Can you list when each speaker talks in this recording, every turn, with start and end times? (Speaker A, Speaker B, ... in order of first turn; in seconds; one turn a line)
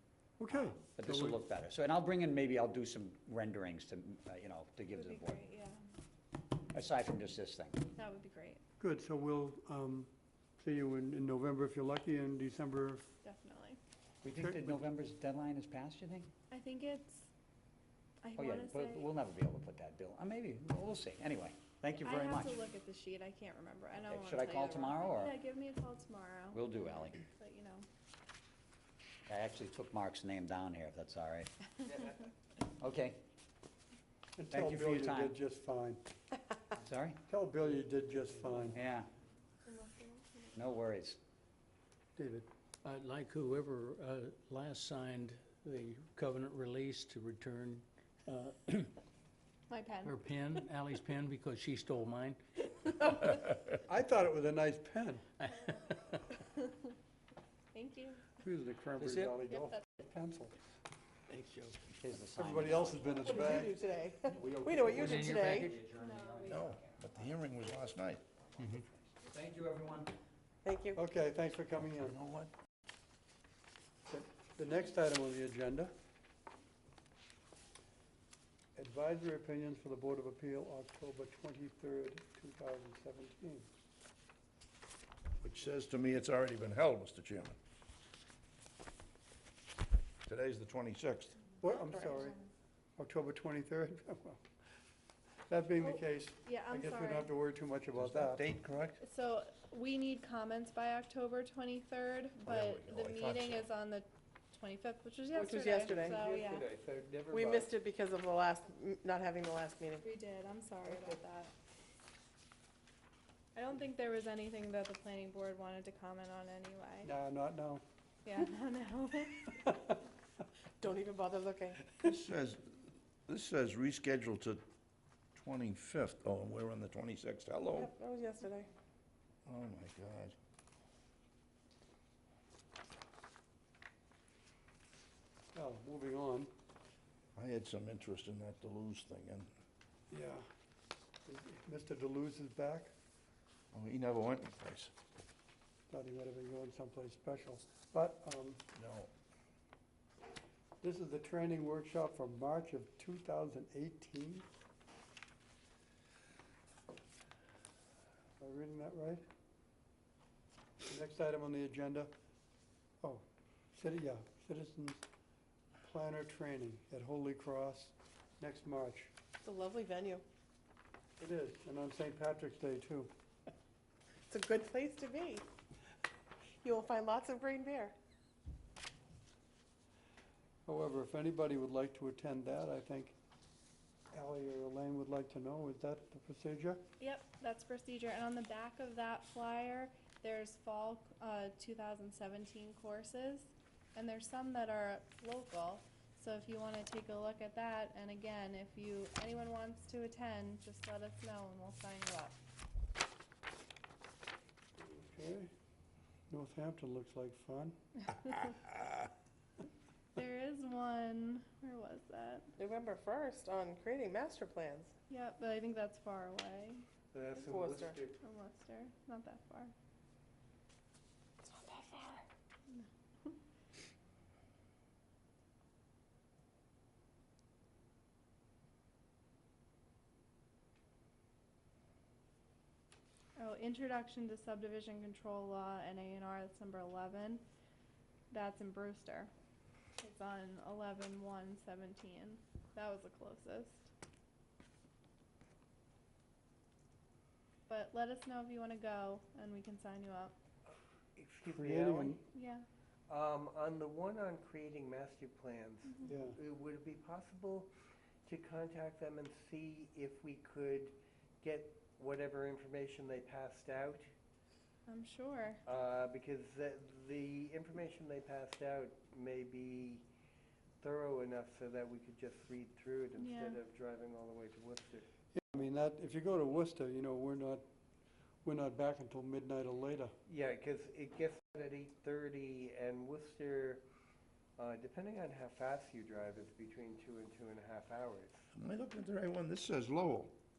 Speaker A: 0.4-1.4
Speaker B: 0.5-5.4
Speaker C: 4.9-5.8
Speaker B: 6.7-7.8
Speaker C: 8.0-8.6
Speaker A: 8.8-10.1
Speaker A: 10.6-13.0
Speaker C: 13.2-13.8
Speaker B: 14.2-16.3
Speaker A: 14.4-14.8
Speaker C: 16.5-17.3
Speaker C: 18.2-19.1
Speaker B: 18.4-22.6
Speaker C: 22.0-27.9
Speaker B: 24.1-25.4
Speaker B: 26.5-27.2
Speaker B: 29.3-31.5
Speaker B: 32.8-33.2
Speaker A: 34.4-36.0
Speaker B: 34.5-35.4
Speaker B: 36.8-37.2
Speaker A: 37.3-38.8
Speaker B: 38.7-39.1
Speaker C: 39.7-40.6
Speaker B: 40.5-41.2
Speaker A: 42.2-42.5
Speaker D: 42.8-49.0
Speaker C: 49.7-50.2
Speaker D: 50.0-53.3
Speaker A: 53.9-55.2
Speaker D: 55.4-55.9
Speaker C: 57.7-58.2
Speaker A: 58.4-60.6
Speaker D: 59.0-59.4
Speaker D: 61.3-61.8
Speaker B: 61.9-63.7
Speaker A: 62.4-63.7
Speaker E: 63.3-65.7
Speaker B: 64.3-67.3
Speaker D: 65.0-65.8
Speaker C: 66.0-66.7
Speaker F: 66.5-68.2
Speaker B: 68.8-70.1
Speaker E: 70.7-71.0
Speaker A: 71.0-72.2
Speaker F: 71.9-72.5
Speaker A: 74.1-75.9
Speaker A: 78.8-83.7
Speaker F: 85.4-87.6
Speaker F: 90.3-91.4
Speaker A: 91.6-92.4
Speaker A: 93.0-94.4
Speaker A: 95.5-98.4
Speaker C: 95.8-97.3
Speaker F: 98.0-99.0
Speaker C: 99.0-106.7
Speaker F: 102.4-103.7
Speaker E: 105.3-106.2
Speaker G: 105.4-107.7
Speaker E: 107.3-110.1
Speaker C: 110.0-111.5
Speaker G: 110.9-111.2
Speaker C: 113.5-117.1
Speaker A: 117.0-117.8
Speaker C: 118.2-119.7
Speaker A: 119.6-119.9
Speaker E: 120.8-122.0
Speaker F: 122.0-122.7
Speaker F: 123.3-124.6
Speaker F: 125.3-127.9
Speaker E: 127.7-128.7
Speaker F: 129.5-130.4
Speaker A: 135.5-136.5
Speaker F: 137.4-139.5
Speaker A: 140.1-140.4
Speaker A: 141.3-142.9
Speaker F: 143.7-144.9
Speaker A: 145.9-148.6
Speaker F: 148.8-149.1
Speaker A: 150.8-154.5
Speaker A: 158.4-159.2
Speaker A: 160.9-162.1
Speaker A: 163.0-165.1
Speaker A: 165.8-169.1
Speaker E: 169.4-170.2
Speaker A: 171.2-173.1
Speaker E: 174.3-175.5
Speaker E: 176.6-178.0
Speaker A: 180.7-183.2
Speaker A: 184.1-186.8
Speaker C: 187.0-202.4
Speaker A: 204.8-205.5
Speaker A: 206.3-207.8
Speaker C: 210.2-212.5
Speaker E: 212.6-214.9
Speaker C: 215.1-216.8
Speaker G: 217.1-218.2
Speaker E: 217.4-218.0
Speaker C: 218.2-219.7
Speaker E: 221.4-222.3
Speaker C: 222.7-223.4
Speaker C: 233.4-237.4
Speaker C: 238.3-239.3
Speaker C: 240.0-243.9
Speaker C: 247.7-250.3
Speaker G: 251.2-252.2
Speaker A: 251.5-252.2
Speaker C: 252.3-252.7
Speaker G: 253.1-257.7
Speaker C: 255.9-256.2
Speaker A: 256.1-256.4
Speaker G: 258.2-264.1
Speaker C: 264.9-265.6
Speaker G: 265.6-270.1
Speaker G: 270.8-275.1
Speaker C: 273.2-273.6
Speaker A: 275.3-277.6
Speaker A: 278.4-280.1
Speaker G: 280.3-283.8
Speaker G: 284.6-288.5
Speaker F: 288.5-290.3